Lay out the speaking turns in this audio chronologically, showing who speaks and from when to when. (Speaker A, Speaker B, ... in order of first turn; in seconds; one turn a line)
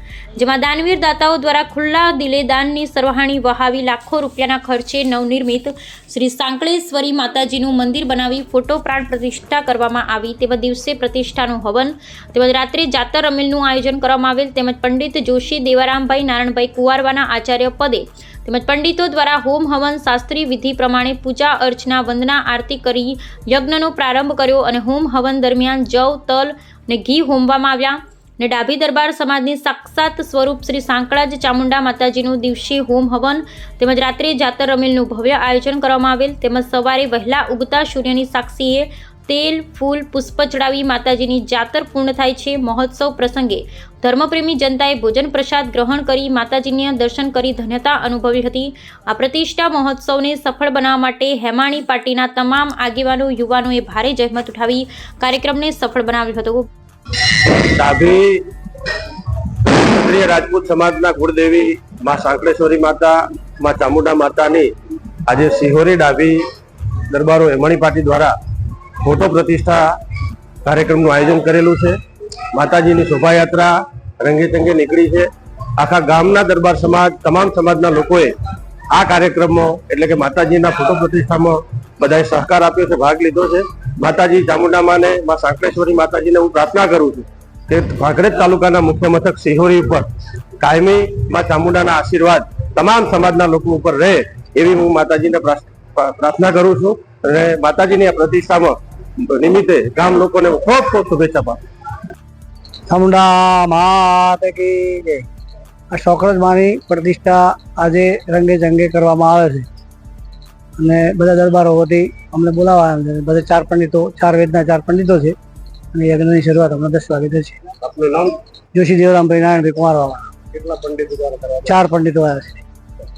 Speaker A: 0.4-56.7
Speaker B: 57.3-64.7
Speaker B: 65.3-66.4
Speaker B: 67.1-70.0
Speaker B: 70.6-72.0
Speaker B: 72.5-78.3
Speaker B: 78.9-90.1
Speaker B: 90.6-101.6
Speaker C: 102.9-105.3
Speaker C: 105.9-109.7
Speaker C: 110.8-115.3
Speaker C: 115.9-117.5
Speaker B: 117.8-118.3
Speaker C: 118.7-120.3
Speaker B: 120.5-121.6
Speaker C: 121.6-122.6